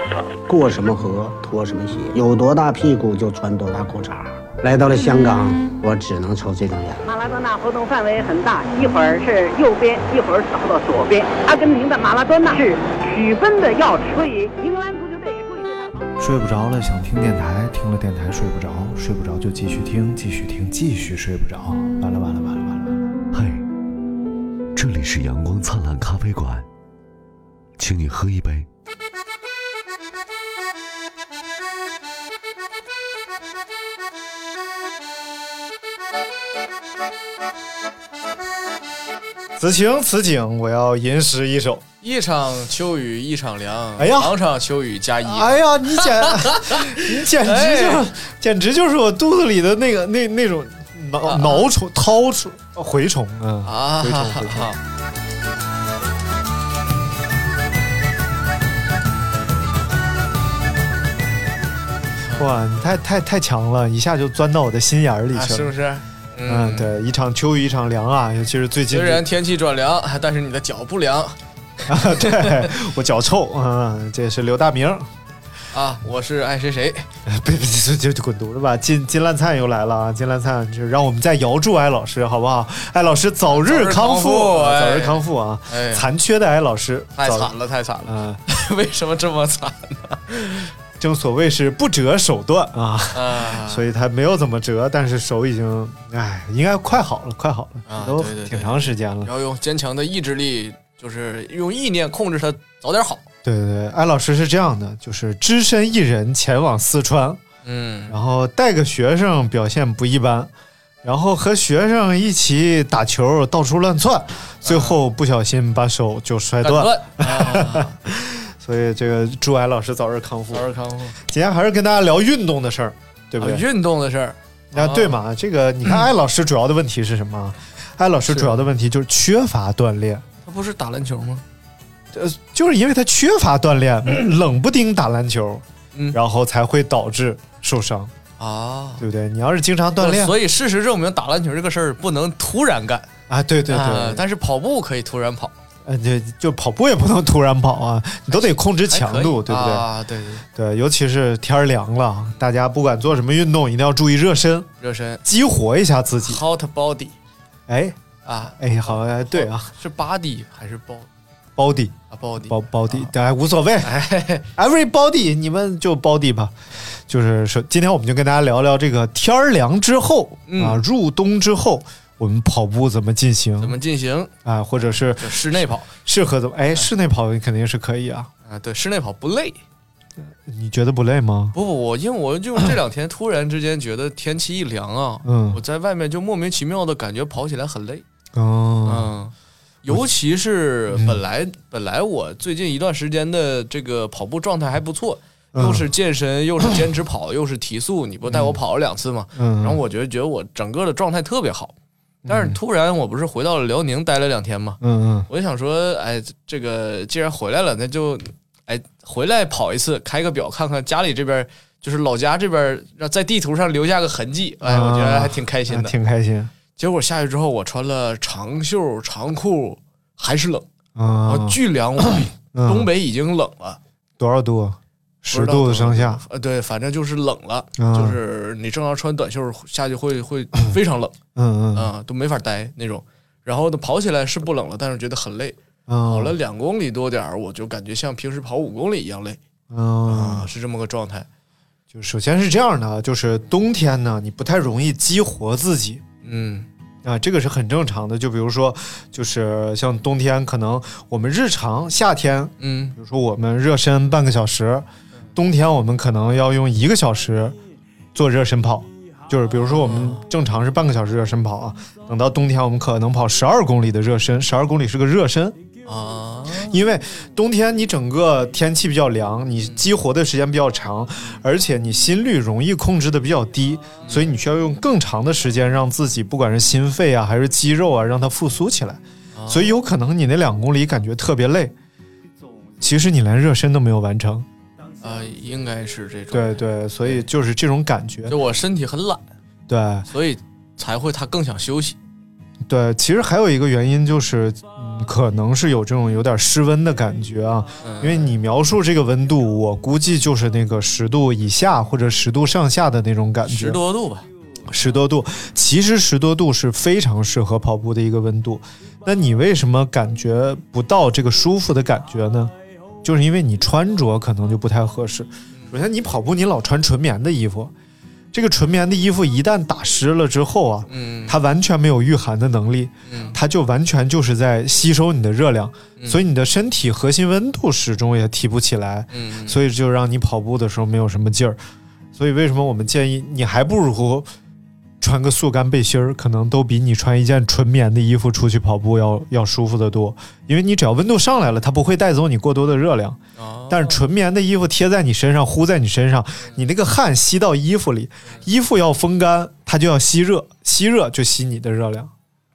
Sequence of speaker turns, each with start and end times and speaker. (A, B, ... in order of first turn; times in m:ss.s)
0:00.5-0:07.0 A
0:07.0-0:16.2 B
0:16.2-0:23.0 C
0:23.3-0:23.6 D
0:24.7-0:26.7 D
0:27.8-0:28.7 D
0:39.6-0:41.8 C
0:42.0-0:48.0 E
0:44.0-0:44.4 C
0:45.2-0:54.7 C
0:51.2-0:51.7 E
0:53.6-0:54.8 E
1:02.4-1:05.7 C
1:05.3-1:06.9 E
1:06.4-1:09.2 C
1:08.9-1:12.7 E
1:11.9-1:15.1 C
1:15.7-1:17.1 E
1:17.2-1:27.5 C
1:23.5-1:26.1 E
1:27.2-1:30.7 E
1:28.0-1:28.4 C
1:31.0-1:39.3 C
1:33.1-1:33.9 E
1:37.9-1:43.2 E
1:43.4-1:47.4 C
1:47.6-1:48.2 E
1:48.1-1:50.5 C
1:51.0-2:03.6 C
1:54.6-1:55.0 E
1:56.6-1:57.9 E
2:00.5-2:01.2 E
2:03.4-2:05.2 E
2:04.7-2:10.2 C
2:08.3-2:08.7 E
2:10.4-2:11.4 E
2:12.1-2:18.1 C
2:15.9-2:16.2 E
2:18.4-2:19.0 E
2:19.0-2:20.3 C
2:20.0-2:23.1 E
2:23.3-2:24.2 C
2:23.7-2:25.6 E
2:25.8-2:29.9 C
2:28.3-2:30.4 E
2:30.5-2:34.7 C
2:34.8-2:35.2 E
2:35.2-2:36.4 C
2:36.2-2:37.1 E
2:37.7-2:38.0 C
2:38.2-2:41.1 E
2:38.5-2:39.7 C
2:41.6-2:44.0 C
2:42.1-2:43.1 E
2:43.8-2:44.5 E
2:44.5-2:53.8 C
2:50.5-2:50.8 E
2:53.6-2:54.3 E
2:54.4-2:58.3 C
2:55.2-2:55.9 E
2:58.4-2:59.6 E
3:00.2-3:01.6 C
3:01.5-3:08.0 E
3:05.2-3:05.6 C
3:08.3-3:09.1 C
3:08.8-3:21.7 E
3:15.5-3:15.9 C
3:18.3-3:18.6 C
3:19.4-3:19.8 C
3:22.2-3:22.6 C
3:22.3-3:35.9 E
3:24.8-3:25.3 C
3:34.6-3:36.5 C
3:36.7-3:40.7 E
3:41.0-3:42.9 C
3:41.2-3:43.8 E
3:44.2-3:46.2 C
3:45.3-3:51.1 E
3:47.8-3:48.2 C
3:51.3-3:51.9 C
3:51.7-3:59.4 E
3:55.9-3:56.4 C
3:59.7-4:00.5 C
4:00.1-4:01.3 E
4:01.9-4:06.0 C
4:06.2-4:06.7 E
4:07.0-4:17.6 C
4:12.6-4:13.0 E
4:18.1-4:25.6 C
4:19.5-4:20.2 E
4:25.8-4:26.8 E
4:26.6-4:41.7 C
4:39.3-4:39.8 E
4:42.8-4:44.5 C
4:45.0-4:47.2 E
4:46.3-4:48.4 C
4:48.3-4:49.2 E
4:49.7-4:50.1 C
4:50.1-4:52.0 E
4:52.6-5:03.8 C
4:57.8-4:58.3 E
5:03.4-5:04.2 E
5:04.6-5:12.5 C
5:13.0-5:17.7 C
5:18.3-5:31.6 C
5:20.9-5:21.4 E
5:23.0-5:23.4 E
5:26.0-5:26.2 E
5:29.1-5:29.6 E
5:32.1-5:34.3 C
5:35.0-5:43.2 C
5:43.4-5:44.0 E
5:43.7-5:52.1 C